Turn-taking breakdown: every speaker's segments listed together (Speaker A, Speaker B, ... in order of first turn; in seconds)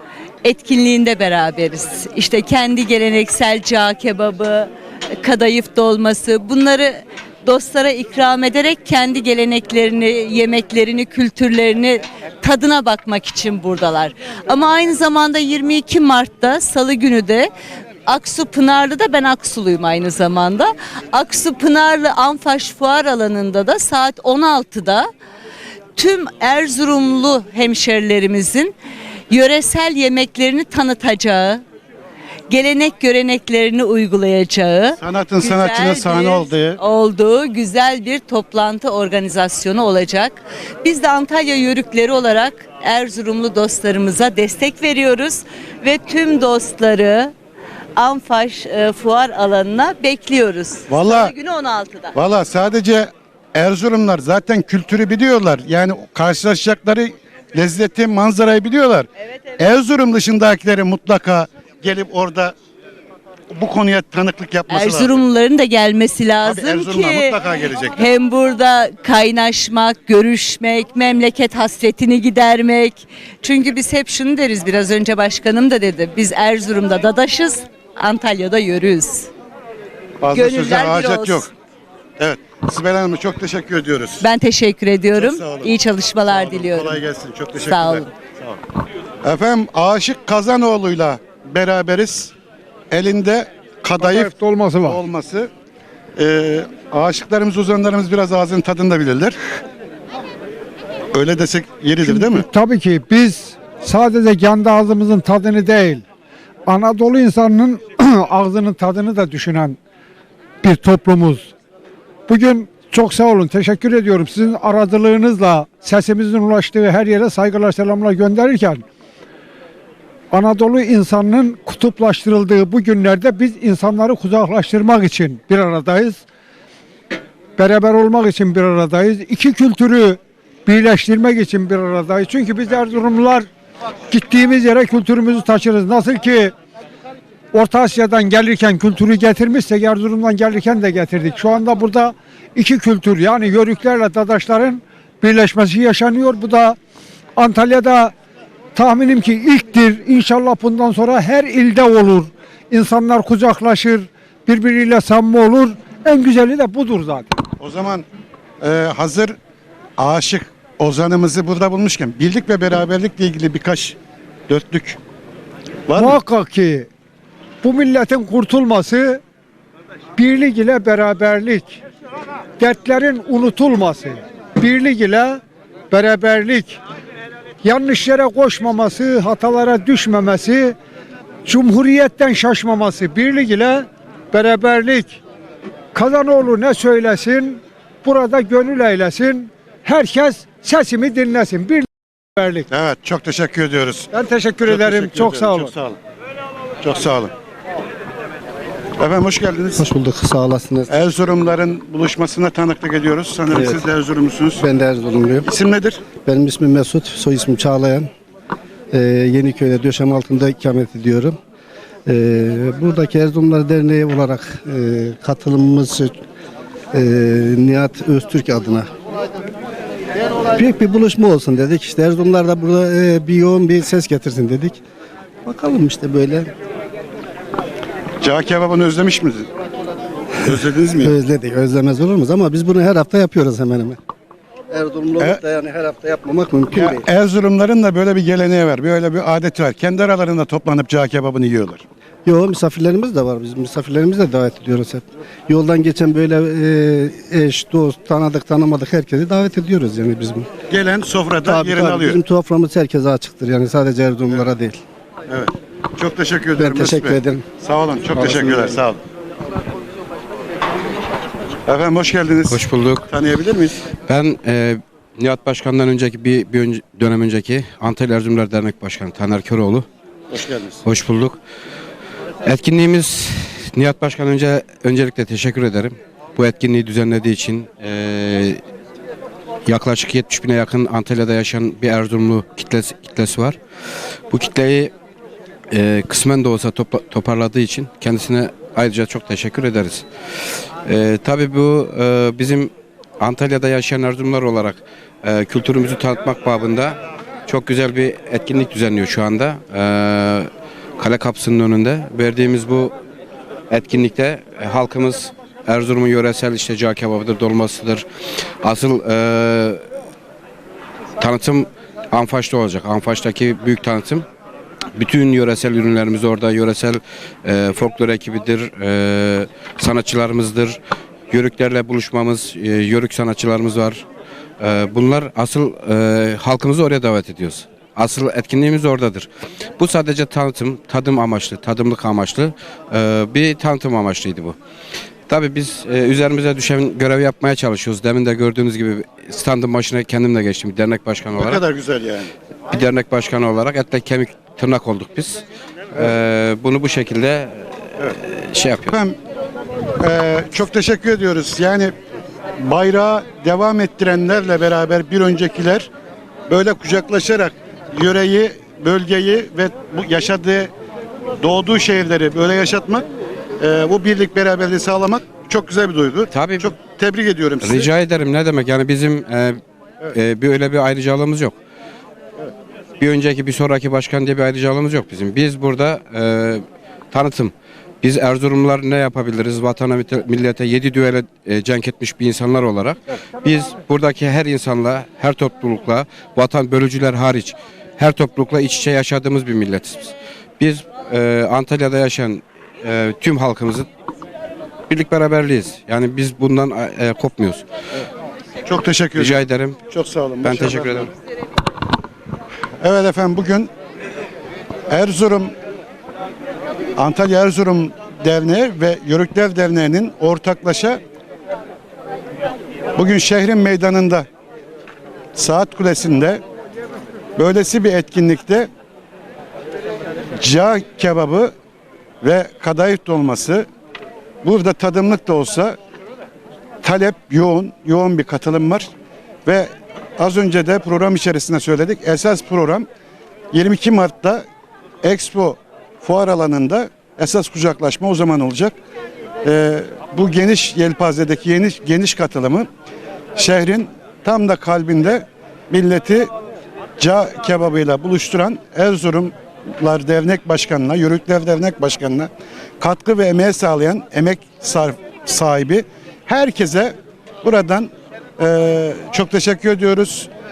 Speaker A: 0.4-17.5, 18.1-25.1, 25.9-28.8, 29.3-31.6, 32.5-47.3, 48.0-52.1, 64.7-67.4, 68.0-79.3, 80.3-81.5, 84.2-87.0, 87.6-88.1
Speaker B: 35.0-36.8, 50.9-51.4, 52.1-62.5, 63.5-65.2, 66.4-68.1, 80.2-81.5, 82.2-84.3, 85.1-88.6, 89.2-92.3, 92.9-95.5, 96.2-99.4, 101.1-102.5, 157.6-158.1, 158.6-159.4, 160.0-164.0, 164.5-165.0, 165.9-166.2, 192.7-194.1, 194.7-196.0, 196.8-197.3, 199.0-199.8, 200.9-204.6, 205.4-206.0, 228.2-229.5, 230.4-231.1, 236.7-241.8, 250.7-252.2, 255.3-259.0, 261.7-263.8, 270.3-270.8, 341.4-342.3, 348.9-349.2, 350.0-351.9, 352.6-355.9, 356.5-360.7, 361.4-363.1, 363.6-367.9, 398.7-401.1, 402.8-403.7, 404.9-405.5, 407.0-411.0, 413.0-414.2, 415.4-416.4, 417.4-418.7, 420.4-421.5, 422.2-423.7, 424.4-425.8, 426.8-428.9, 429.4-432.9, 433.5-434.4, 435.0-438.8, 439.4-442.7, 443.4-446.3, 447.0-460.3
Speaker C: 94.0-95.0, 102.0-106.0, 106.7-109.8, 110.6-111.5, 112.3-118.8, 120.3-126.2, 127.6-133.5, 134.1-136.5, 137.5-146.8, 147.4-148.1, 148.8-157.4, 165.9-166.9, 167.6-169.2, 170.2-171.8, 172.6-175.4, 175.9-176.8, 177.6-180.8, 181.4-185.2, 185.9-192.7, 194.1-195.7
Speaker D: 199.8-201.0, 203.5-203.9, 204.6-205.5, 206.2-208.1, 208.9-211.4, 212.1-216.1, 216.9-218.9, 220.5-224.8, 225.5-226.5, 231.0-234.0, 234.7-237.1, 242.2-250.5, 251.4-254.8, 256.6-257.4, 258.2-258.8
Speaker E: 262.5-263.0, 264.1-269.9, 270.9-271.4, 272.4-278.6, 279.7-283.6, 284.3-284.9, 285.7-290.1, 290.9-302.9, 303.7-308.1, 308.6-309.8, 311.2-314.2, 315.0-320.8, 321.3-324.1, 324.6-329.3, 329.8-334.6, 335.3-341.6, 342.7-347.6, 348.2-349.0, 366.3-366.7, 367.6-369.6, 370.1-371.6, 373.0-393.9, 394.9-397.6, 399.1-399.8, 400.4-401.1